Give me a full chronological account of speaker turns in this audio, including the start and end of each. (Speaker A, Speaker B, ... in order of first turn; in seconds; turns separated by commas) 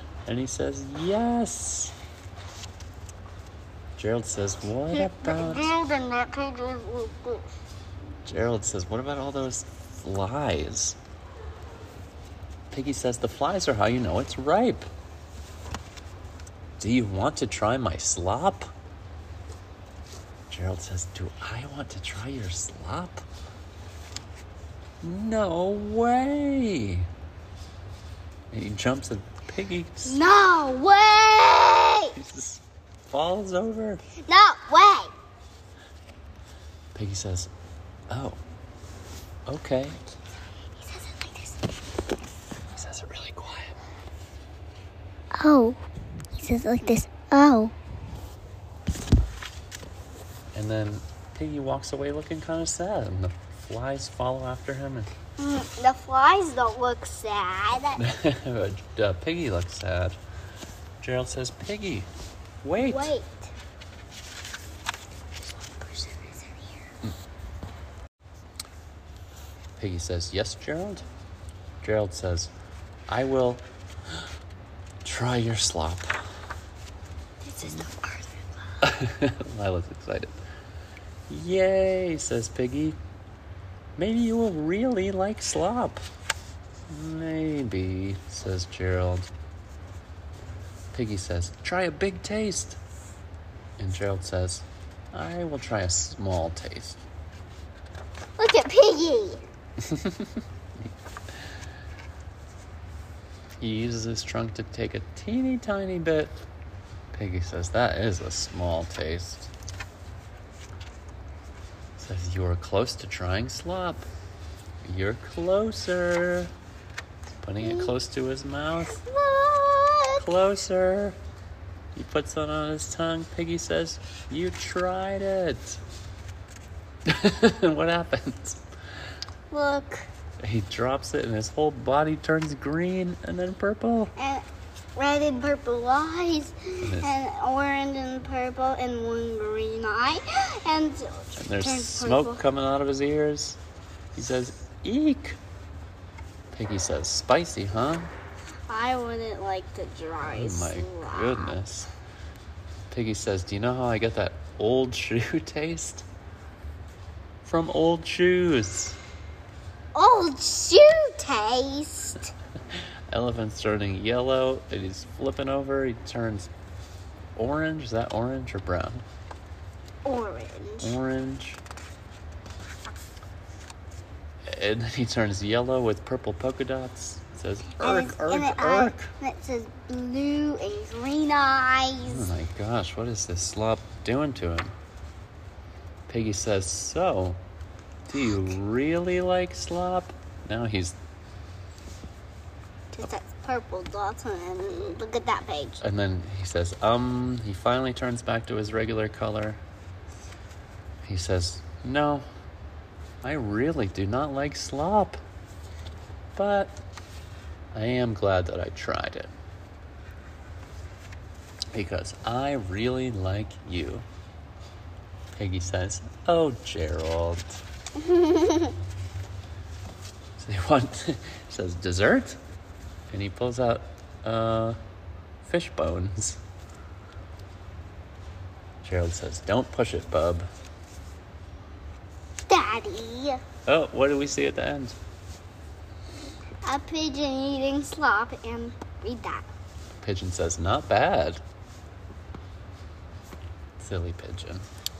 Speaker A: 0.2-1.9, Speaker A: 4.0-5.8, Speaker B: 5.0-7.5, Speaker A: 8.2-11.0, Speaker A: 12.7-14.9, Speaker A: 16.8-18.7, Speaker A: 20.5-23.2, Speaker A: 25.0-27.1, Speaker A: 28.5-30.2, Speaker B: 30.0-32.1, Speaker A: 32.1-34.0, Speaker B: 34.2-35.1, Speaker A: 36.9-37.5, Speaker A: 38.1-38.4, Speaker A: 39.5-40.0, Speaker B: 40.7-41.6, Speaker A: 42.7-43.7, Speaker B: 45.4-45.8, Speaker B: 46.4-47.7, Speaker A: 50.5-55.1, Speaker B: 55.4-58.0, Speaker A: 58.0-60.2, Speaker A: 61.0-62.1, Speaker A: 62.6-63.1, Speaker B: 62.8-63.5, Speaker B: 65.5-66.8, Speaker A: 69.8-71.0, Speaker A: 71.8-72.5, Speaker A: 73.1-73.6, Speaker A: 75.0-76.1, Speaker B: 77.4-78.9, Speaker A: 78.8-80.4, Speaker A: 81.3-83.0, Speaker A: 84.0-86.0, Speaker A: 86.9-89.3, Speaker A: 90.9-92.8, Speaker A: 93.8-97.0, Speaker B: 98.4-99.4, Speaker A: 99.8-100.9, Speaker A: 103.6-106.4, Speaker A: 107.1-109.5, Speaker A: 112.0-114.1, Speaker A: 114.8-116.5, Speaker A: 117.4-119.0, Speaker B: 117.6-117.9, Speaker B: 118.8-120.2, Speaker A: 120.2-121.2, Speaker A: 121.9-125.8, Speaker A: 127.0-128.6, Speaker B: 129.5-130.1, Speaker A: 130.4-134.1, Speaker B: 134.2-134.4, Speaker B: 134.9-142.4, Speaker A: 136.8-137.1, Speaker A: 141.4-143.6, Speaker A: 144.1-145.4, Speaker A: 146.5-148.1, Speaker B: 148.7-151.6, Speaker A: 150.2-151.9, Speaker A: 152.9-156.1, Speaker A: 157.4-159.0, Speaker B: 159.9-162.3, Speaker A: 163.1-166.5, Speaker A: 167.3-169.0, Speaker B: 170.0-170.9, Speaker A: 170.8-171.6, Speaker A: 174.5-179.1, Speaker B: 177.7-182.3, Speaker A: 182.1-184.7, Speaker A: 186.1-187.4, Speaker A: 188.1-190.9, Speaker B: 193.0-195.8, Speaker A: 195.8-199.6, Speaker A: 201.0-202.2, Speaker A: 203.2-205.2, Speaker A: 206.3-206.8, Speaker A: 207.7-209.3, Speaker A: 211.7-214.1, Speaker A: 215.3-217.6, Speaker B: 218.0-218.7, Speaker A: 220.4-222.4, Speaker A: 223.1-224.8, Speaker A: 225.4-226.4, Speaker A: 228.8-230.5, Speaker B: 232.5-233.4, Speaker A: 233.7-234.9, Speaker B: 236.6-239.4, Speaker A: 240.0-241.4, Speaker A: 243.8-244.6